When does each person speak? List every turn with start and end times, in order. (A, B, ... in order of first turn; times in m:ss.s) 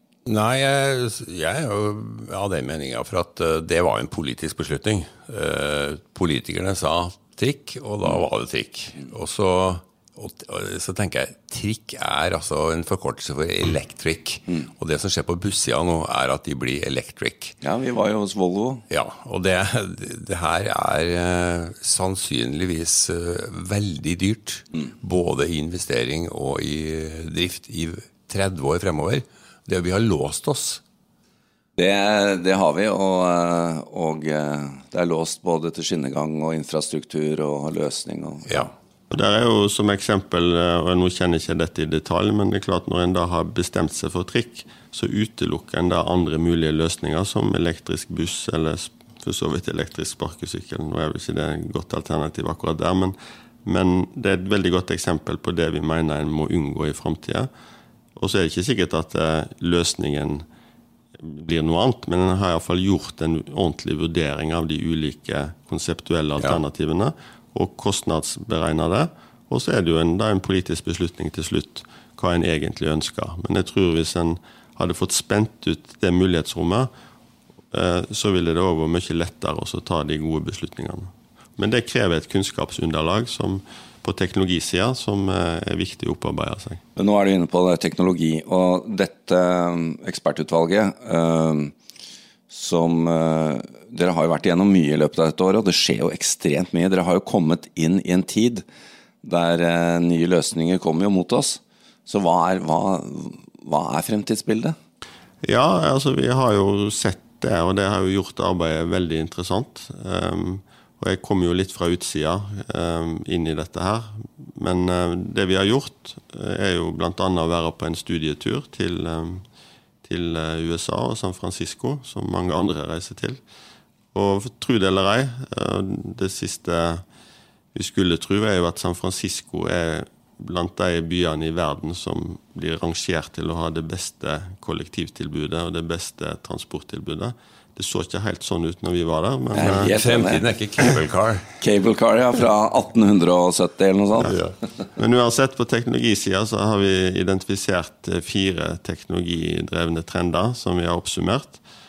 0:00.3-0:17.6 A
0:17.6-0:18.8 B
0:18.9-0:30.8 A
0:31.8-0:38.7 B
0:39.1-0:57.5 C
0:58.2-1:00.4 C
1:01.2-1:16.9 C
1:17.7-1:26.8 C
1:27.0-1:31.7 B
1:32.5-1:38.6 B
1:39.2-1:44.8 B
1:45.4-1:59.4 C
2:00.0-2:03.4 C
2:04.1-2:07.0 C
2:07.7-2:20.0 C
2:19.5-2:20.5 B
2:19.7-2:21.5 A
2:21.6-2:24.3 B
2:24.2-2:31.6 C